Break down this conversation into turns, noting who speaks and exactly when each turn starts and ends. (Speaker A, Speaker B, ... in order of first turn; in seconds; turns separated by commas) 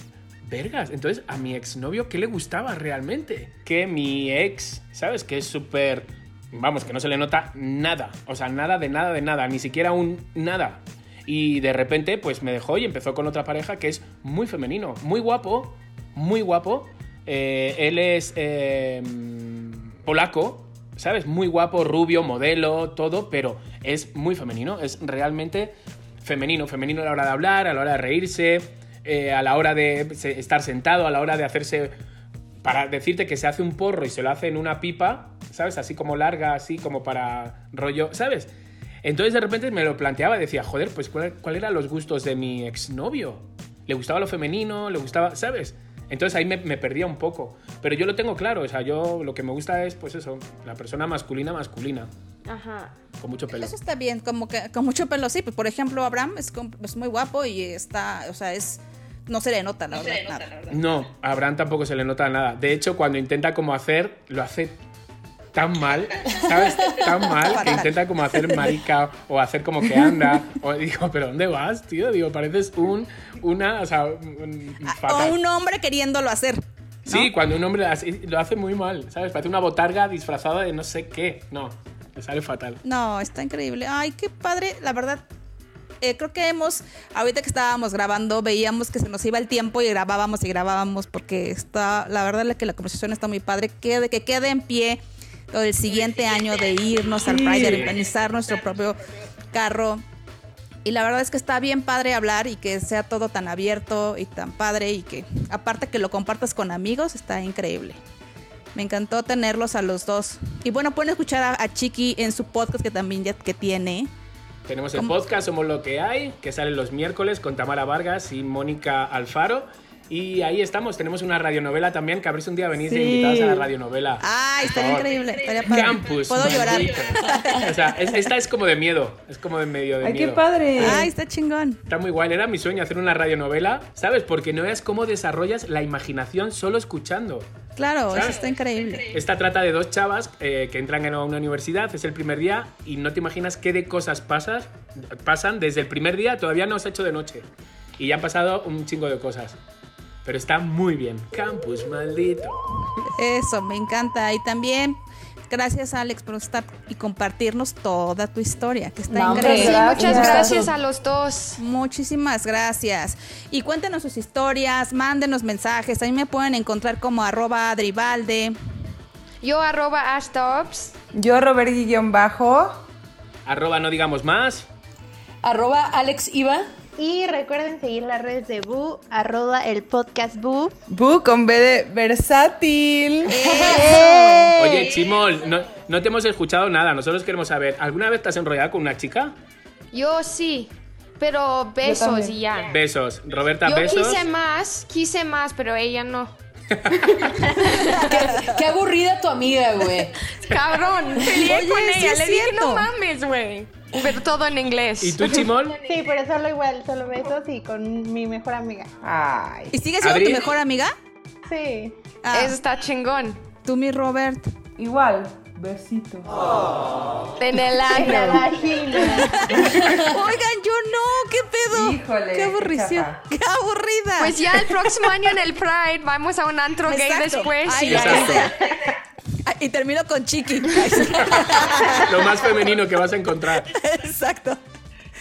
Speaker A: 0.4-31.9, Speaker A: 32.6-38.5, Speaker A: 39.0-52.1, Speaker B: 52.5-52.9, Speaker A: 53.2-53.7, Speaker C: 53.5-60.7, Speaker A: 60.7-64.8, Speaker A: 65.5-75.4, Speaker C: 67.3-67.9, Speaker C: 74.8-77.3, Speaker A: 77.1-82.8, Speaker C: 82.8-85.2, Speaker C: 86.0-99.0, Speaker D: 97.2-97.9, Speaker A: 97.6-97.9, Speaker C: 99.5-100.0, Speaker C: 100.8-108.0, Speaker C: 108.7-114.1, Speaker A: 114.7-125.1, Speaker D: 122.8-123.7, Speaker C: 124.2-128.1, Speaker A: 125.7-130.4, Speaker D: 130.0-131.1, Speaker C: 130.8-131.8, Speaker A: 131.9-137.5, Speaker C: 137.8-139.1, Speaker A: 138.1-138.4, Speaker A: 139.1-147.4, Speaker A: 148.0-149.6, Speaker A: 150.2-152.6, Speaker C: 153.2-160.3, Speaker E: 159.1-160.7, Speaker D: 159.3-160.5, Speaker B: 159.4-161.6, Speaker C: 161.6-168.5, Speaker B: 169.4-170.9, Speaker D: 171.1-172.8, Speaker A: 173.4-174.7, Speaker E: 175.4-176.7, Speaker F: 177.0-180.7, Speaker D: 180.9-184.6, Speaker C: 183.3-184.5, Speaker A: 184.6-189.3, Speaker B: 189.9-192.7, Speaker D: 191.8-192.3, Speaker A: 192.7-194.2, Speaker B: 193.6-196.3, Speaker A: 196.7-197.3, Speaker E: 197.5-200.2, Speaker B: 200.4-205.5, Speaker C: 201.3-202.9, Speaker A: 205.0-205.8, Speaker F: 205.8-208.9, Speaker D: 209.0-209.7, Speaker C: 209.7-210.9, Speaker A: 210.0-210.5, Speaker F: 211.5-211.9, Speaker C: 212.2-212.6, Speaker B: 212.3-213.4, Speaker C: 213.6-214.5, Speaker D: 214.8-216.7, Speaker B: 217.4-218.5, Speaker F: 217.9-219.4, Speaker C: 219.1-225.0, Speaker D: 219.5-220.0, Speaker D: 221.7-223.2, Speaker B: 224.2-228.5, Speaker C: 226.8-228.9, Speaker A: 227.8-228.5, Speaker C: 229.4-232.4, Speaker A: 231.3-233.7, Speaker C: 233.7-234.6